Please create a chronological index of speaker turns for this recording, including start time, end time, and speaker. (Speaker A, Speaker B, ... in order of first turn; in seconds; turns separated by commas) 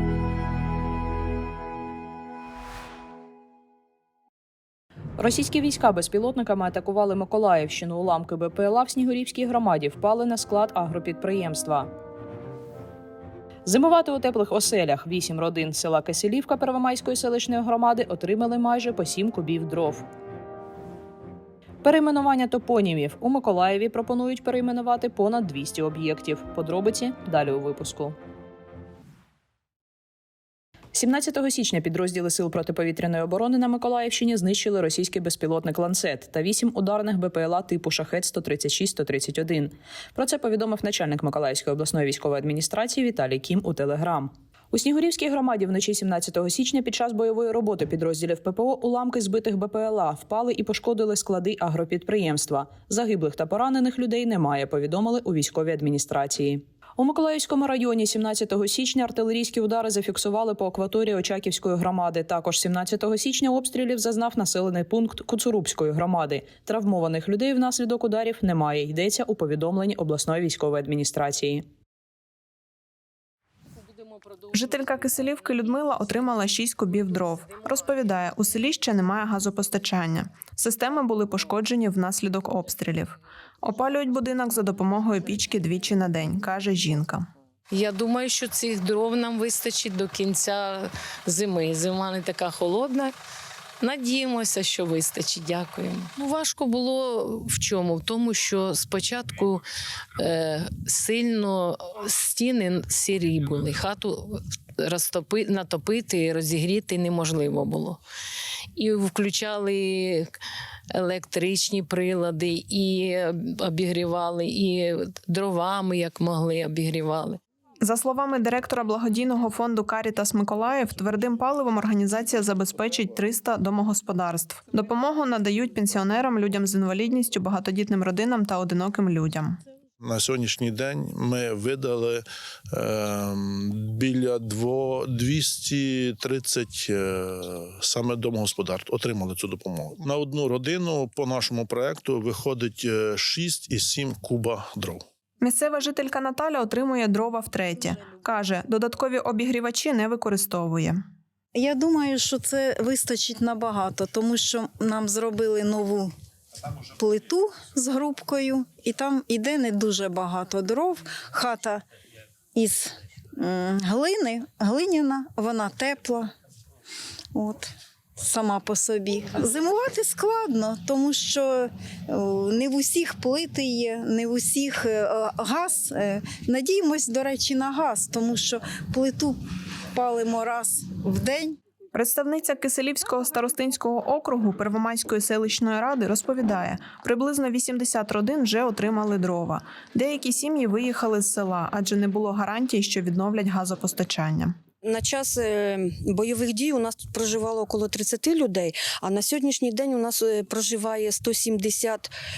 Speaker A: 5.2-11.9, Speaker A: 13.7-20.0, Speaker A: 21.8-28.2, Speaker A: 30.9-71.6, Speaker B: 74.5-87.3, Speaker C: 87.7-93.1, Speaker C: 93.8-99.6, Speaker C: 100.2-108.0, Speaker C: 108.8-110.3, Speaker C: 111.0-117.4, Speaker B: 117.8-129.6, Speaker D: 130.0-132.2, Speaker D: 132.7-145.0, Speaker B: 145.4-151.0, Speaker E: 151.6-156.1, Speaker E: 157.0-161.8, Speaker E: 162.6-166.3, Speaker E: 167.3-179.4, Speaker E: 179.9-181.6, Speaker B: 181.9-194.6, Speaker F: 194.9-195.4, Speaker F: 196.0-202.0